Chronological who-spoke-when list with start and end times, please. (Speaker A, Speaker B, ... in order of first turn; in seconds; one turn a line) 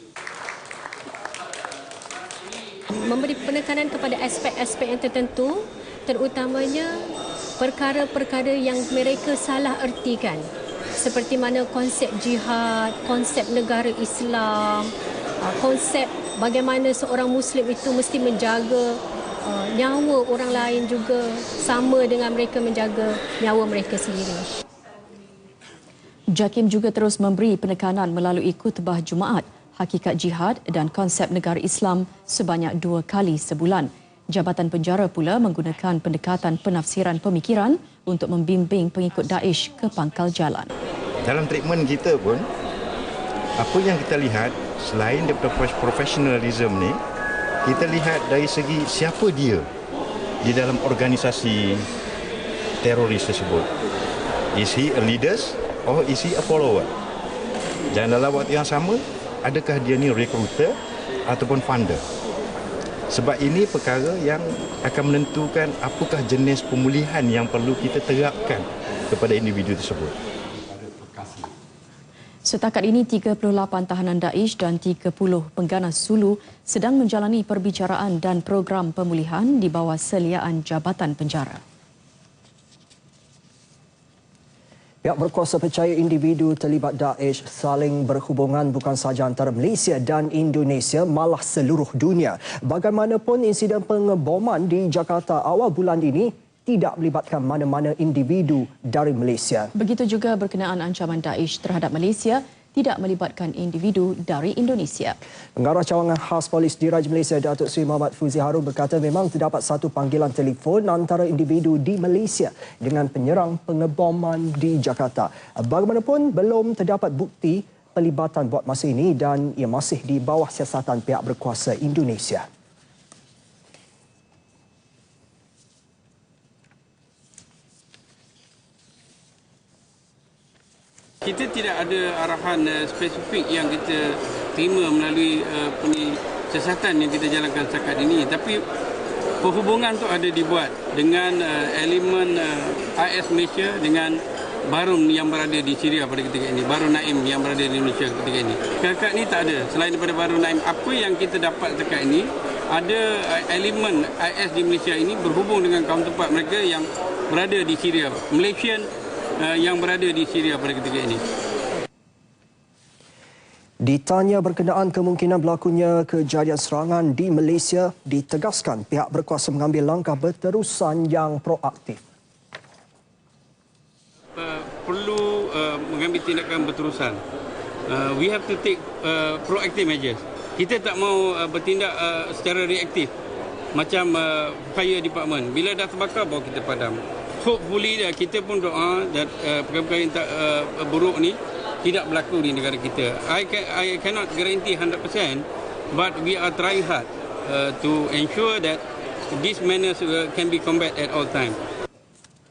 Speaker A: 2.9-6.9
Speaker A: 7.6-14.9
Speaker A: 15.4-24.5
Speaker B: 26.3-40.7
Speaker C: 41.2-42.5
Speaker C: 43.6-47.0
Speaker C: 47.6-49.7
Speaker C: 50.4-51.9
Speaker C: 52.8-53.7
Speaker C: 54.5-56.9
Speaker C: 57.9-60.8
Speaker C: 61.3-62.0
Speaker C: 63.1-70.2
Speaker B: 72.5-81.6
Speaker D: 85.0-99.7
Speaker B: 99.8-105.2
Speaker D: 105.6-122.5
Speaker E: 131.2-138.6
Speaker E: 139.4-158.9
Speaker E: 159.4-161.2
Speaker D: 163.8-172.0
Speaker E: 174.4-177.2
Speaker E: 177.9-183.1
Speaker E: 183.7-201.6